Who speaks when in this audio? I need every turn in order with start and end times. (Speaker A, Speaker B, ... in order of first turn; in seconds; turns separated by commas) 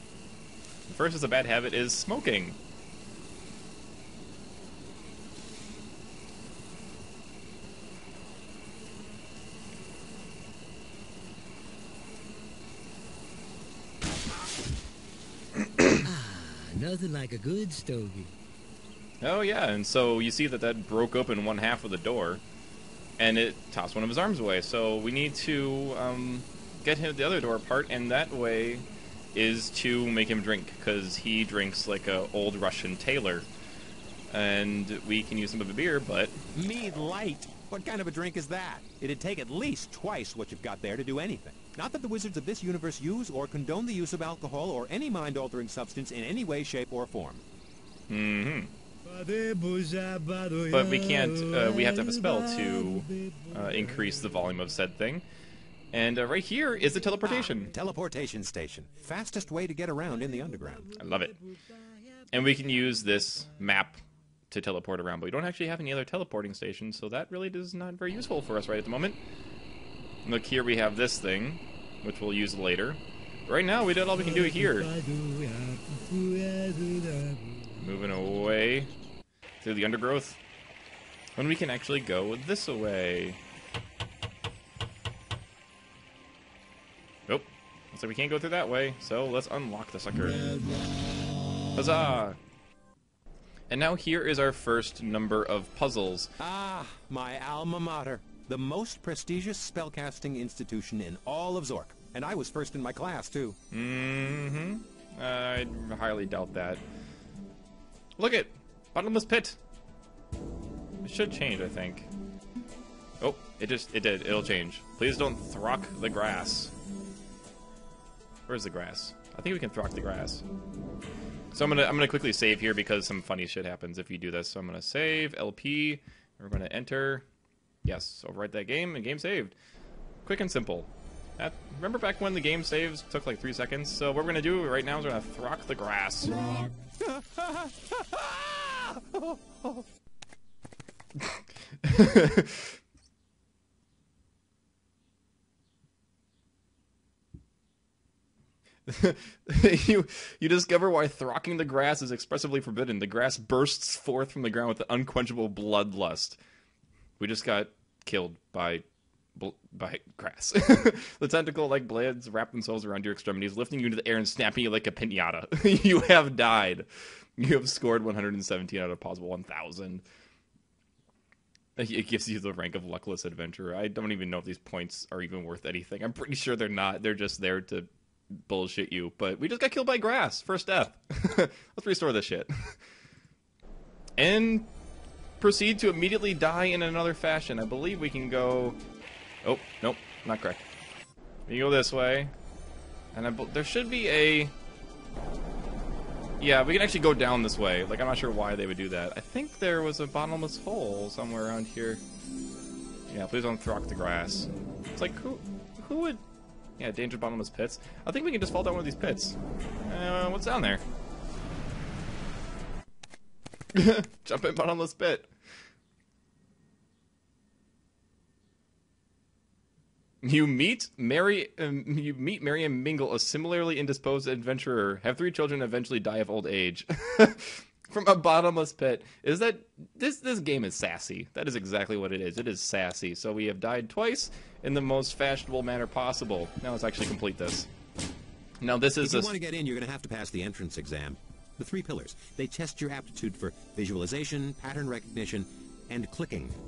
Speaker A: 0.9-2.6, Speaker B: 16.0-18.3, Speaker A: 19.2-22.4, Speaker A: 23.2-33.5, Speaker A: 34.3-36.4, Speaker C: 36.5-47.4, Speaker A: 48.1-48.7, Speaker B: 49.0-54.6, Speaker A: 50.7-55.2, Speaker A: 55.9-57.7, Speaker C: 57.2-60.9, Speaker B: 60.8-61.3, Speaker A: 61.0-61.4, Speaker B: 62.3-62.9, Speaker A: 62.3-69.2, Speaker A: 70.2-74.9, Speaker B: 74.2-77.9, Speaker A: 77.8-78.9, Speaker A: 79.6-80.4, Speaker A: 81.4-83.4, Speaker A: 87.3-90.5, Speaker A: 91.8-92.4, Speaker A: 93.7-96.3, Speaker C: 96.4-103.6, Speaker A: 103.7-106.8, Speaker A: 108.2-109.6, Speaker A: 111.0-112.1, Speaker A: 113.2-116.7, Speaker A: 118.5-120.4, Speaker A: 121.5-127.3, Speaker A: 127.8-129.6, Speaker A: 130.2-136.5, Speaker C: 137.0-139.9, Speaker A: 141.2-142.8, Speaker A: 148.9-156.4, Speaker A: 157.2-170.0, Speaker A: 171.8-182.8, Speaker A: 184.2-184.7, Speaker A: 185.4-188.8, Speaker A: 189.4-190.7, Speaker A: 191.5-192.3, Speaker A: 193.1-194.5, Speaker A: 196.4-202.0, Speaker A: 203.1-206.2, Speaker A: 206.8-210.8, Speaker A: 213.7-215.3, Speaker A: 220.2-237.7, Speaker A: 238.6-239.3, Speaker C: 239.0-246.6